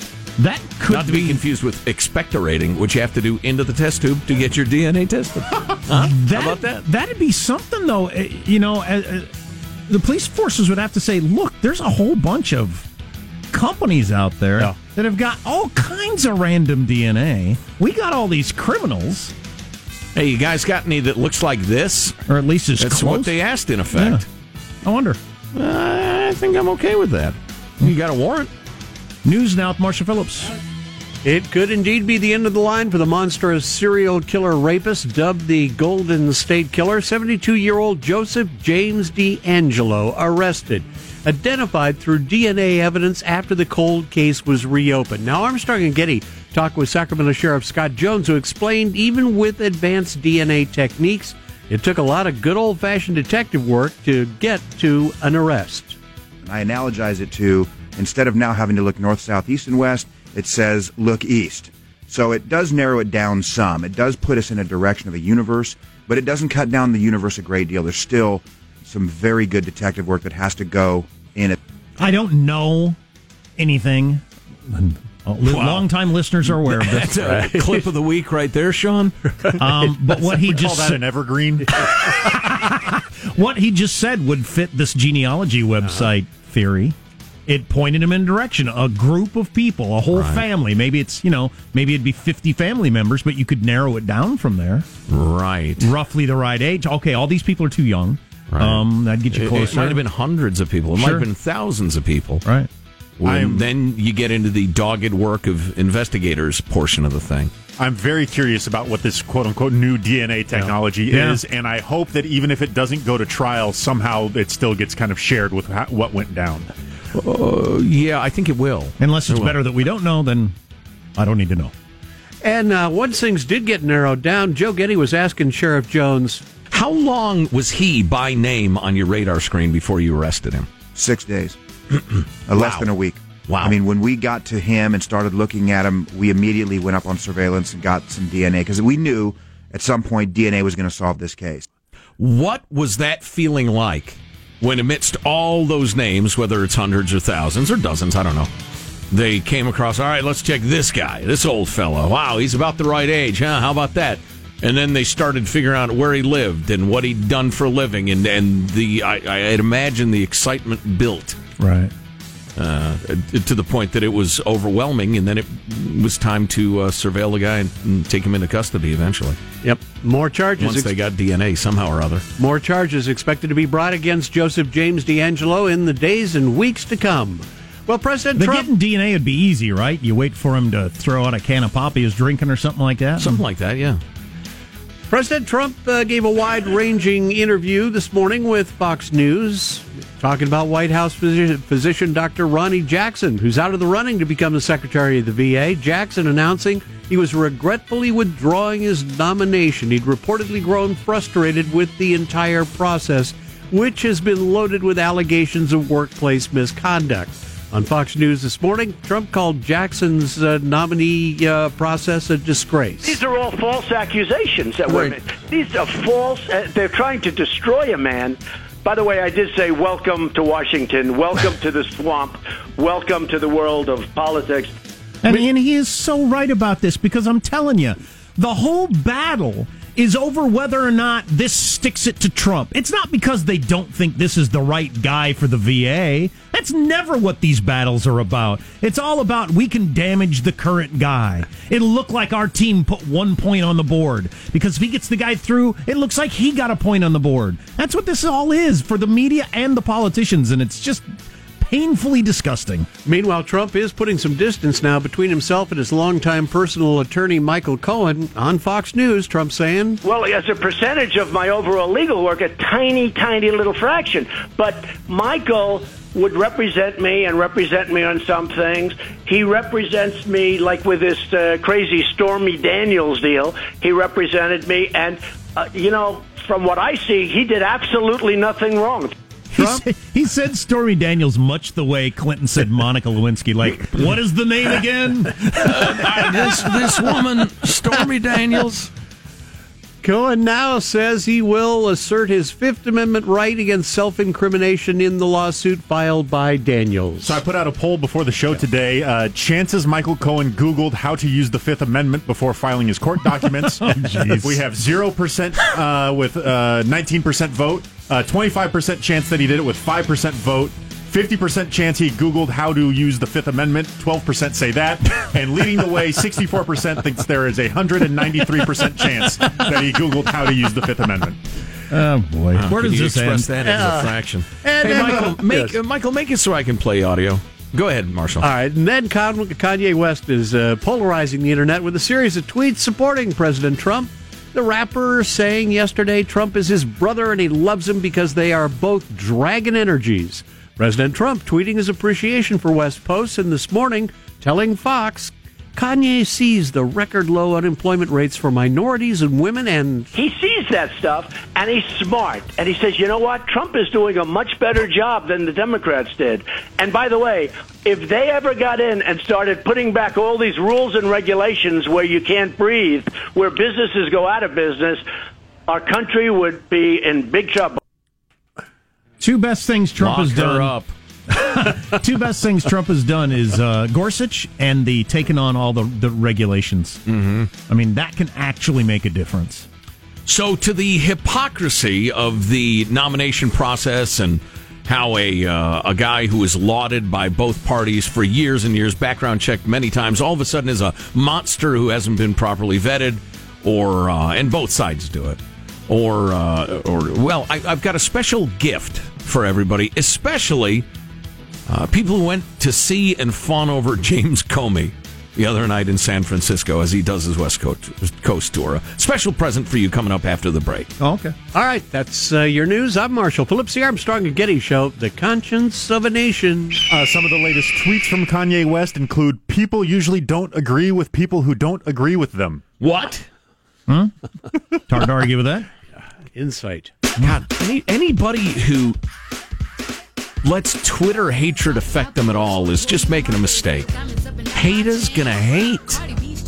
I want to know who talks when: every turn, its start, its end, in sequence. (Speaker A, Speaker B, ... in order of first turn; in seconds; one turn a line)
Speaker A: 0.4-1.4
Speaker B: 0.9-6.8
Speaker A: 5.9-9.3
Speaker A: 9.9-12.9
Speaker A: 13.5-19.3
Speaker B: 20.1-22.2
Speaker A: 22.3-23.3
Speaker B: 22.8-24.3
Speaker A: 23.9-24.2
Speaker A: 24.8-25.2
Speaker B: 25.5-28.5
Speaker A: 29.2-30.5
Speaker C: 31.2-56.0
Speaker D: 56.4-71.6
Speaker A: 72.0-73.0
Speaker A: 73.6-77.3
Speaker B: 75.5-75.9
Speaker B: 76.5-79.2
Speaker C: 77.2-77.9
Speaker C: 79.4-79.6
Speaker A: 79.6-81.0
Speaker E: 80.2-81.8
Speaker A: 81.8-87.0
Speaker A: 87.5-94.9
Speaker B: 90.1-90.5
Speaker B: 95.1-95.9
Speaker A: 95.8-100.0
Speaker B: 98.5-102.4
Speaker A: 101.0-101.3
Speaker B: 103.2-107.5
Speaker E: 103.2-103.7
Speaker E: 107.8-116.7
Speaker A: 110.5-111.4
Speaker B: 117.1-119.6
Speaker A: 119.0-120.6
Speaker A: 121.2-121.7
Speaker C: 122.4-126.4
Speaker B: 126.7-130.7
Speaker D: 130.9-131.6
Speaker B: 131.9-132.9
Speaker D: 132.5-141.7
Speaker B: 133.5-133.8
Speaker B: 142.2-148.5
Speaker B: 149.1-161.4
Speaker A: 161.6-161.9
Speaker B: 162.6-169.4
Speaker C: 169.6-170.9
Speaker B: 170.6-172.2
Speaker C: 172.4-178.7
Speaker A: 178.4-183.4
Speaker B: 183.2-184.0
Speaker C: 185.1-213.2
Speaker F: 213.0-224.7
Speaker A: 225.2-252.9
Speaker C: 253.1-260.0
Speaker F: 260.0-279.1
Speaker A: 279.6-286.4
Speaker B: 285.6-288.9
Speaker C: 290.0-297.4
Speaker E: 297.2-321.4
Speaker A: 303.5-304.6
Speaker A: 321.9-323.5
Speaker B: 322.6-328.5
Speaker C: 323.6-325.7
Speaker C: 328.4-350.1
Speaker F: 350.1-365.0
Speaker F: 365.7-367.8
Speaker A: 369.2-370.8
Speaker B: 370.0-370.9
Speaker A: 371.3-377.0
Speaker B: 377.1-377.5
Speaker A: 377.7-379.7
Speaker B: 380.3-400.9
Speaker B: 401.7-410.9
Speaker A: 411.0-411.4
Speaker C: 411.5-416.9
Speaker E: 416.9-422.6
Speaker B: 422.8-423.3
Speaker A: 423.9-424.1
Speaker A: 424.9-425.7
Speaker C: 425.9-426.9
Speaker B: 427.2-429.0
Speaker B: 430.4-433.9
Speaker B: 434.5-436.0